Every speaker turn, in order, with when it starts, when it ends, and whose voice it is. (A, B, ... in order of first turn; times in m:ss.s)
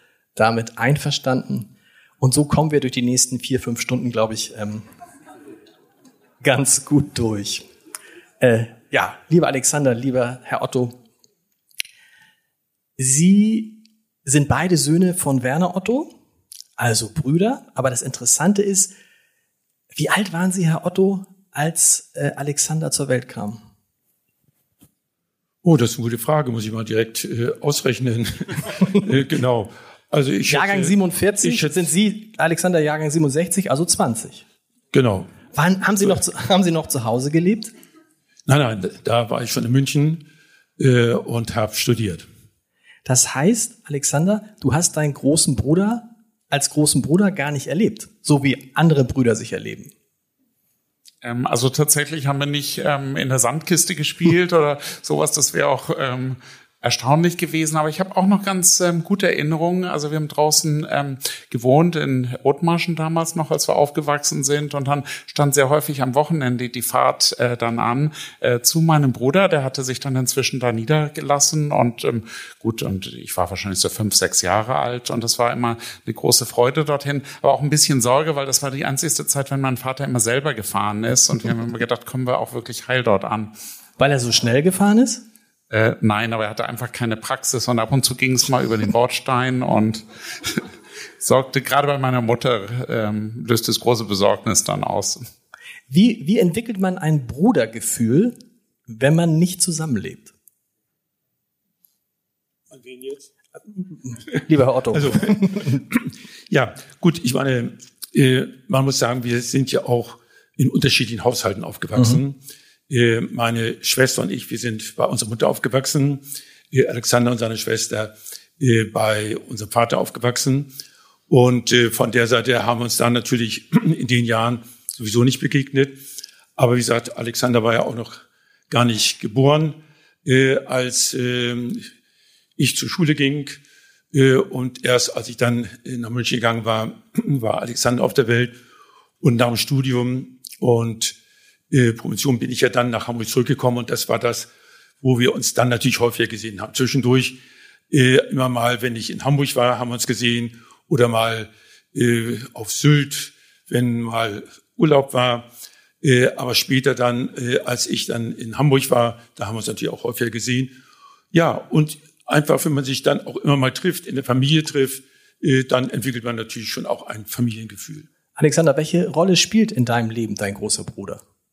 0:00.4-0:04.8 A
0:06.4-0:07.6 A
0:08.4-0:11.0 A
0:13.0-0:16.1 A
0:16.8-0:18.9 A
0:19.9-0:23.6 A
0:25.6-0:31.9 B
0:30.5-0:34.4 A
0:34.9-0:35.3 B
0:35.5-0:37.7 A
0:38.5-0:40.2 B
0:40.8-0:42.2 B
0:43.0-0:49.9 A
0:51.2-1:23.5 C
1:24.0-1:25.2 A
1:25.7-1:30.7 C
1:31.2-1:35.2 C
1:35.9-1:38.4 A
1:38.9-1:40.3 A
1:42.7-1:43.3 B
1:43.8-1:45.8 A
1:44.9-1:52.4 B
1:52.9-2:00.7 B
2:01.3-2:06.0 B
2:06.6-2:11.9 B
2:12.6-2:13.6 B
2:14.1-2:18.5 B
2:19.2-2:21.1 B
2:21.7-2:24.5 B
2:25.0-2:27.4 B
2:27.9-2:35.5 B
2:36.0-2:40.7 B
2:41.3-2:48.1 B
2:48.4-2:51.2 A